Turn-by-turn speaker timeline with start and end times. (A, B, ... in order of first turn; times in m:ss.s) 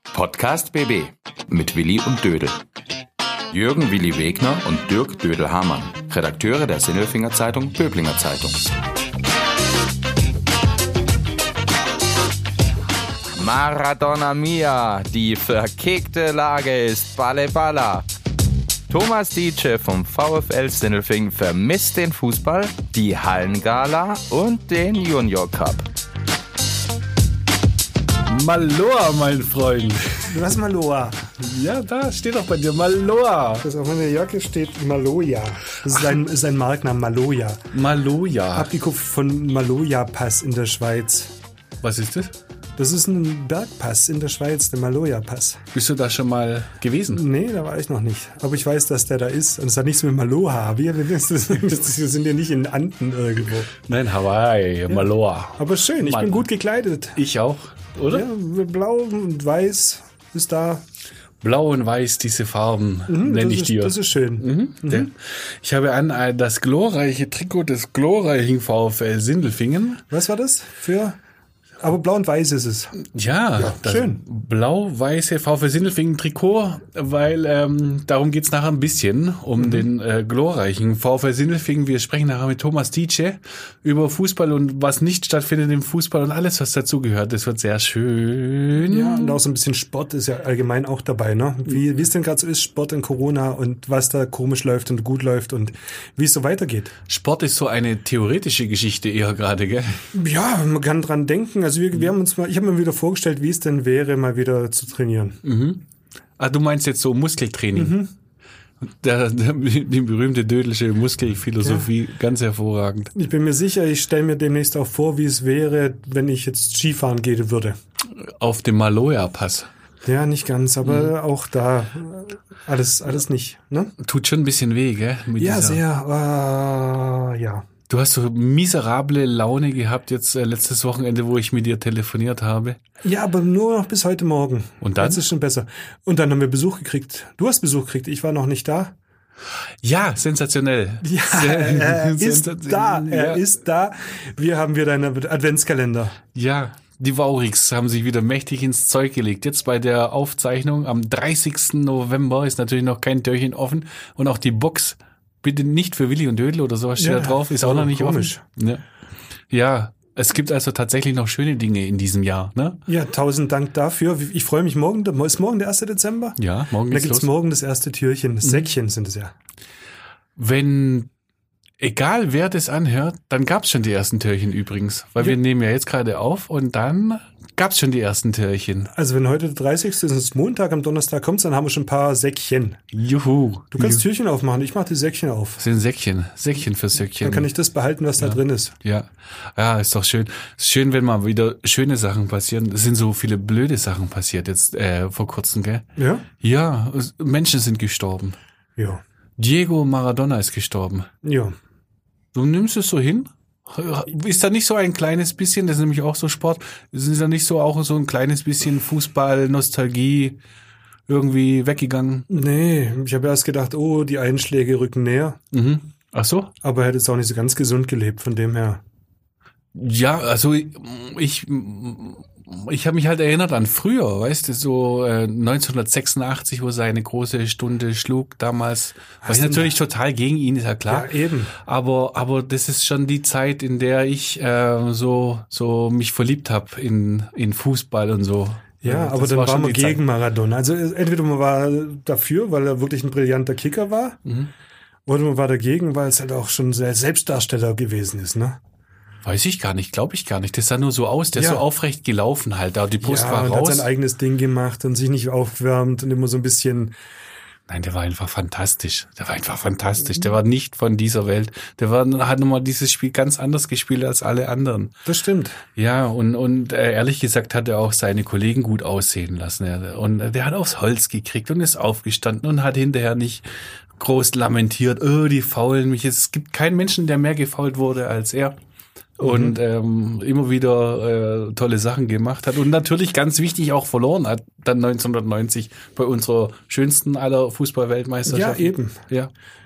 0:00.1-0:02.6 A
0:03.5-0:08.6 A
0:13.3-0:18.0 A
0:18.9-0:25.8 A
0:28.3-0:30.4 B
0:30.3-0:31.2 C
0:31.4-0:33.6 B
0:33.6-0:37.6 C
0:37.7-0:38.7 B
0:38.5-0:41.3 C
0:41.8-0:42.3 B
0:42.8-0:45.6 C
0:45.7-0:47.2 B
0:47.1-0:53.7 C
0:53.8-0:56.4 B
0:55.6-0:57.2 C
0:57.1-0:58.3 B
0:58.1-1:00.8 C
1:01.4-1:10.0 B
1:03.1-1:05.1 C
1:10.1-1:11.2 C
1:11.8-1:12.9 C
1:13.0-1:29.4 B
1:13.6-1:14.2 C
1:19.6-1:19.8 C
1:28.8-1:36.9 C
1:37.1-1:40.1 B
1:40.1-1:45.4 C
1:45.4-1:45.8 B
1:46.4-1:48.0 B
1:47.7-1:48.1 C
1:48.8-1:53.1 B
1:51.6-1:51.9 C
1:53.1-1:57.8 C
1:58.4-1:59.7 B
2:00.0-2:03.9 C
2:00.8-2:01.1 B
2:04.0-2:05.8 B
2:05.4-2:07.7 C
2:07.9-2:12.8 B
2:13.0-2:18.9 C
2:14.8-2:15.2 B
2:19.8-2:23.4 B
2:21.0-2:26.2 C
2:26.3-2:38.8 B
2:37.0-2:38.4 C
2:39.5-2:42.8 B
2:42.9-2:49.3 C
2:46.4-2:47.3 B
2:50.4-2:51.1 B
2:51.8-2:58.9 B
2:58.9-3:02.8 C
3:02.9-3:04.0 B
3:03.7-3:05.6 C
3:05.6-3:07.5 B
3:07.2-3:08.7 C
3:08.2-3:15.8 B
3:16.0-3:16.2 C
3:16.4-3:18.4 B
3:18.8-3:19.0 C
3:19.4-3:21.1 B
3:21.2-3:21.6 C
3:22.3-3:30.4 B
3:31.1-3:32.2 B
3:32.3-3:35.4 C
3:35.5-3:36.5 B
3:36.6-3:38.8 C
3:39.7-4:00.0 B
3:49.2-3:49.7 C
3:50.9-3:51.5 C
3:58.8-4:04.2 C
4:04.2-4:04.5 B
4:05.0-4:08.6 C
4:09.2-4:13.9 B
4:11.3-4:11.6 C
4:13.0-4:16.9 C
4:17.7-4:24.9 B
4:25.0-4:25.6 C
4:25.8-4:33.4 B
4:34.0-4:38.5 B
4:39.2-4:49.3 B
4:39.2-4:39.6 C
4:48.2-4:49.0 C